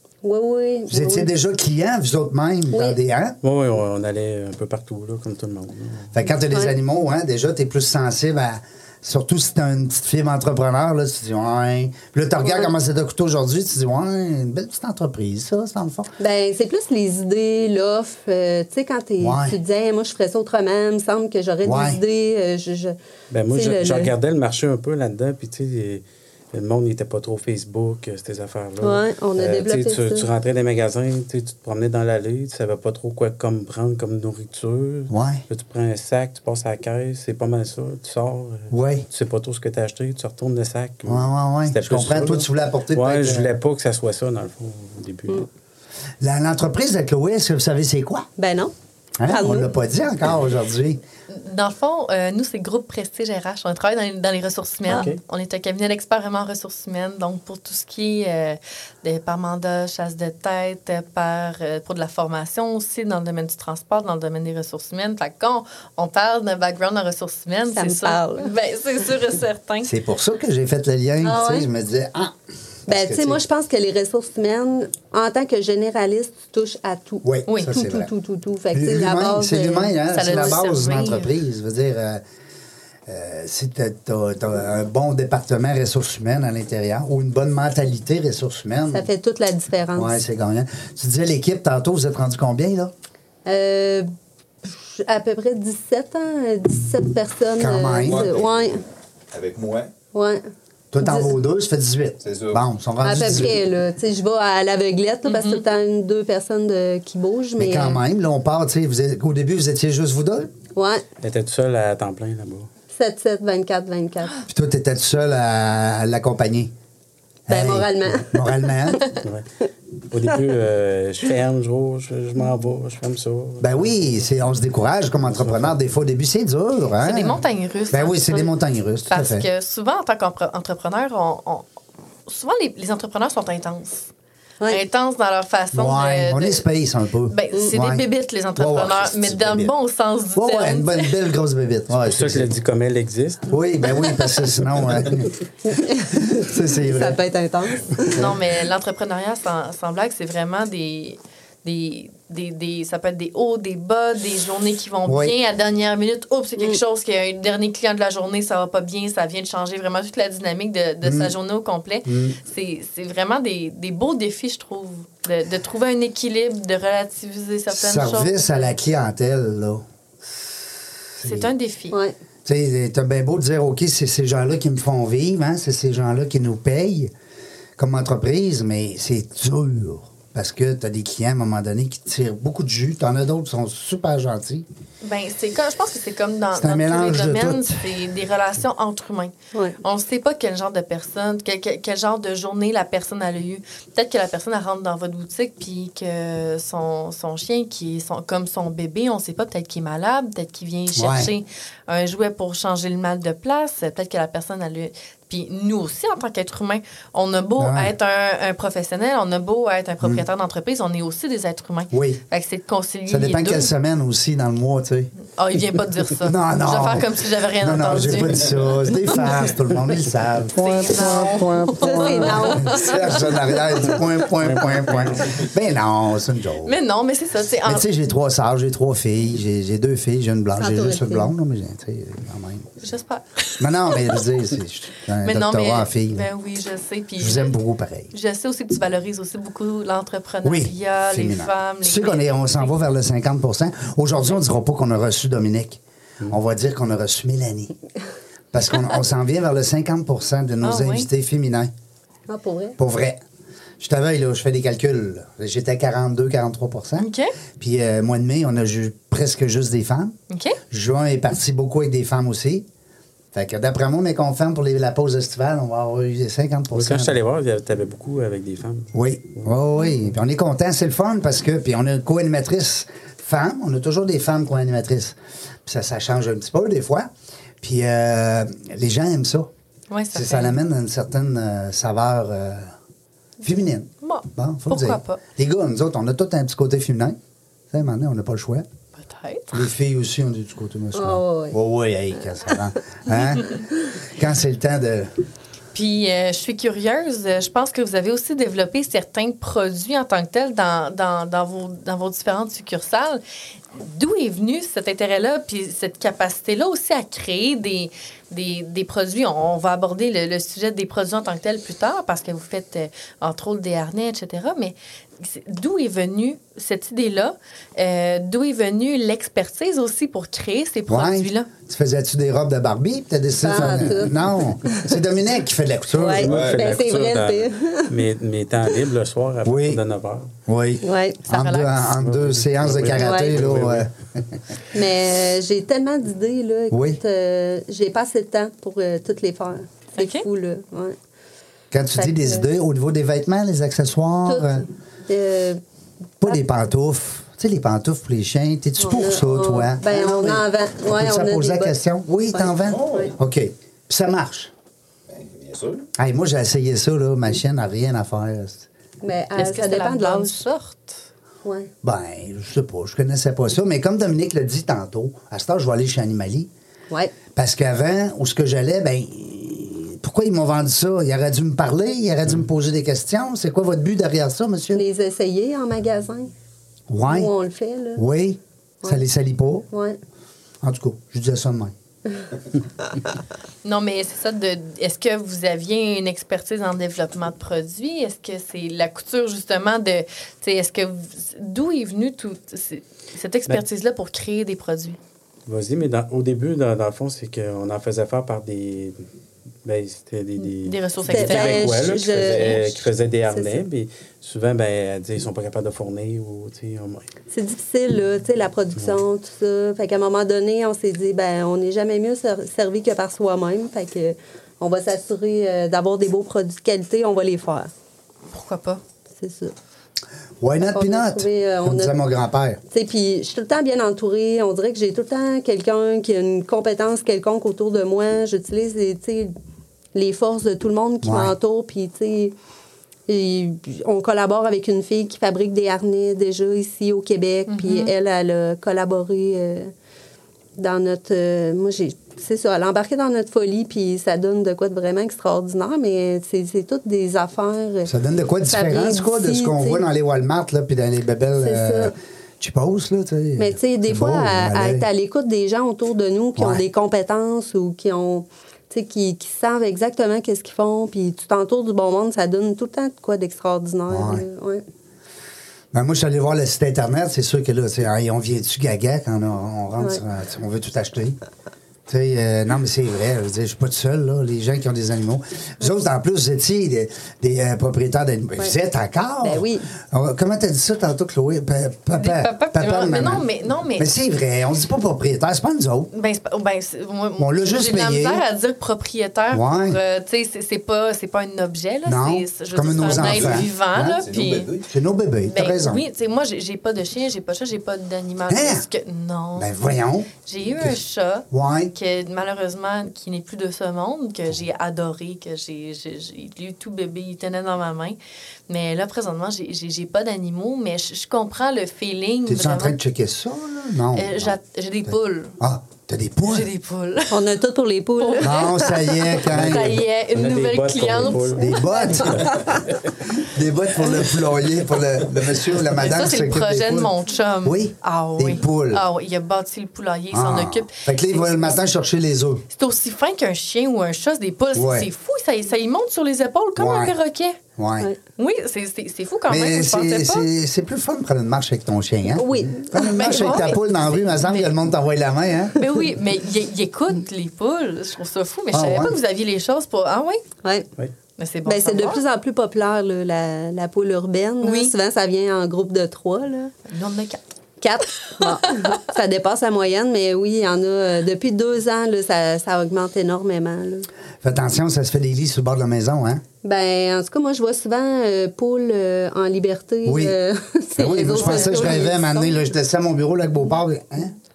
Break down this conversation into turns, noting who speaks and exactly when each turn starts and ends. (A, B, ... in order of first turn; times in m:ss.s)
0:00.2-0:01.3 A
0:00.9-0:03.4 B
0:02.7-0:03.0 A
0:03.4-0:06.1 C
0:06.1-0:16.1 B
0:06.5-0:06.8 A
0:12.4-0:12.7 A
0:16.2-0:23.0 A
0:19.2-0:19.6 B
0:21.6-0:22.0 B
0:23.3-0:45.5 C
0:23.5-0:24.1 A
0:28.8-0:30.3 A
0:35.1-0:35.4 B
0:38.7-0:39.1 B
0:41.1-0:43.5 B
0:46.2-0:48.3 B
0:48.4-0:48.7 A
0:49.2-0:51.0 B
0:49.3-0:49.7 A
0:51.3-1:09.9 D
0:54.9-0:55.2 C
1:07.7-1:08.5 A
1:09.8-1:12.4 B
1:11.2-1:11.7 A
1:12.9-1:13.4 B
1:12.9-1:20.6 A
1:17.2-1:18.1 B
1:18.7-1:22.2 B
1:20.1-1:21.3 D
1:23.1-1:29.1 B
1:28.9-1:30.2 A
1:30.0-1:32.9 B
1:33.5-1:34.1 A
1:34.6-1:38.8 A
1:37.6-1:38.3 B
1:38.0-1:38.7 E
1:39.3-1:39.9 E
1:40.1-1:40.4 A
1:40.9-1:43.6 B
1:41.0-1:41.3 A
1:42.2-1:42.6 E
1:43.0-1:48.0 A
1:45.2-1:45.6 D
1:47.6-1:50.5 B
1:50.8-1:51.0 A
1:51.2-1:52.7 C
1:52.9-1:54.4 A
1:54.5-1:56.7 B
1:57.5-1:59.0 B
1:57.5-1:59.0 A
1:59.2-1:59.5 C
2:00.1-2:04.0 C
2:03.6-2:09.5 B
2:05.2-2:05.8 C
2:07.0-2:08.5 D
2:09.1-2:11.6 D
2:12.3-2:14.1 D
2:14.7-2:16.6 D
2:15.7-2:18.0 B
2:17.3-2:21.2 D
2:18.6-2:19.7 B
2:20.4-2:22.5 B
2:21.9-2:23.4 C
2:23.5-2:25.3 B
2:25.7-2:28.2 A
2:26.2-2:27.2 B
2:28.1-2:48.7 D
2:35.1-2:35.3 B
2:41.0-2:41.3 B
2:42.1-2:42.4 B
2:47.7-2:49.8 B
2:51.2-2:51.5 B
2:51.2-2:52.0 D
2:52.4-2:57.1 B
2:57.8-3:04.7 B
3:05.0-3:33.7 D
3:06.5-3:07.9 B
3:21.0-3:21.3 B
3:27.6-3:27.9 B
3:31.9-3:32.2 B
3:33.1-3:35.1 B
3:35.3-3:39.4 D
3:36.2-3:46.8 B
3:40.6-3:43.2 D
3:41.8-3:42.9 A
3:46.6-3:47.9 D
3:47.6-3:52.7 B
3:50.6-3:51.3 A
3:52.8-3:54.1 D
3:53.6-3:56.3 B
3:55.2-3:57.5 D
3:57.2-3:58.1 B
3:58.1-4:02.8 D
4:00.4-4:07.7 B
4:08.5-4:11.7 B
4:10.6-4:11.1 D
4:12.3-4:12.8 A
4:12.8-4:13.2 B
4:13.8-4:20.2 B
4:17.0-4:17.3 D
4:20.3-4:20.6 D
4:20.7-4:22.7 B
4:23.3-4:27.2 B
4:26.7-4:28.9 C
4:28.9-4:35.2 B
4:35.7-4:37.1 B
4:37.6-4:39.5 B
4:39.9-4:40.6 D
4:40.1-4:42.7 B
4:43.4-4:47.2 B
4:44.0-4:45.2 D
4:47.7-4:48.6 B
4:49.0-4:49.7 D
4:49.5-4:55.1 B
4:50.9-4:51.6 A
4:55.7-5:03.2 D
5:03.8-5:21.5 D
5:20.9-5:26.5 B
5:23.4-5:24.9 A
5:26.0-5:27.9 A
5:26.2-5:26.8 E
5:26.2-5:30.3 C
5:29.4-5:29.8 B
5:30.5-5:33.9 B
5:30.8-5:31.2 A
5:31.3-5:31.9 D
5:31.9-5:33.9 C
5:32.9-5:33.4 A
5:34.7-5:41.0 A
5:36.7-5:37.0 B
5:40.0-5:40.2 D
5:41.7-5:44.7 B
5:42.0-5:42.5 A
5:44.3-5:45.6 A
5:46.2-5:54.5 B
5:48.8-5:51.8 A
5:52.3-5:53.1 A
5:52.5-5:53.2 E
5:55.1-5:55.9 E
5:56.0-5:58.7 B
5:59.0-6:00.4 A
5:59.4-6:01.0 D
6:01.4-6:01.7 A
6:01.8-6:06.5 B
6:07.4-6:14.8 B
6:14.7-6:16.3 A
6:16.9-6:17.3 B
6:17.1-6:18.0 A
6:18.0-6:19.7 B
6:19.7-6:20.0 A
6:20.6-6:21.7 B
6:23.6-6:35.0 D
6:35.5-6:39.0 C
6:39.6-6:47.0 C
6:40.4-6:42.7 D
6:41.1-6:42.7 A
6:43.3-6:43.6 A
6:47.3-6:57.7 A
6:58.3-6:58.8 D
6:59.2-6:59.5 A
7:00.4-7:02.6 B
7:00.7-7:02.0 A
7:02.7-7:09.3 A
7:10.0-7:12.3 A
7:11.0-7:11.3 B
7:13.1-7:19.7 A
7:17.5-7:17.9 D
7:20.6-7:27.9 A
7:27.9-7:34.9 B
7:28.5-7:29.8 A
7:31.4-7:31.9 A
7:33.4-7:44.6 A
7:36.4-7:36.6 B
7:43.9-7:44.2 B
7:45.7-7:51.2 B
7:51.9-8:05.9 B
7:59.2-7:59.7 A
8:01.9-8:03.9 D
8:05.9-8:14.5 D
8:07.2-8:08.2 B
8:09.3-8:09.8 B
8:11.9-8:14.0 B
8:12.7-8:14.7 E
8:14.7-8:15.8 B
8:15.3-8:19.5 D
8:18.3-8:18.6 B
8:19.4-8:20.8 B
8:20.3-8:28.0 D
8:21.3-8:21.7 B
8:28.5-8:32.8 D
8:32.3-8:34.4 B
8:34.0-8:35.4 D
8:35.4-8:36.5 B
8:36.2-8:37.2 D
8:37.1-8:39.0 A
8:38.0-8:42.1 D
8:38.2-8:39.8 B
8:39.4-8:41.6 C
8:41.3-8:42.4 B
8:43.2-8:46.9 B
8:45.8-8:51.5 D
8:47.4-8:48.8 B
8:50.1-8:52.5 B
8:52.6-8:57.4 D
8:54.6-8:54.9 B
8:56.6-8:56.9 B
8:57.6-8:57.9 B
8:58.2-9:00.3 D
8:59.3-9:05.6 B
9:02.2-9:02.9 A
9:02.8-9:04.5 D
9:05.6-9:10.2 D
9:08.5-9:09.0 B
9:11.2-9:12.0 D
9:11.5-9:16.5 A
9:14.4-9:14.7 D
9:16.7-9:17.2 D
9:17.6-9:23.9 A
9:18.2-9:18.8 D
9:24.2-9:26.2 B
9:26.4-9:32.4 A
9:29.8-9:30.2 B
9:30.8-9:34.2 B
9:31.1-9:31.7 D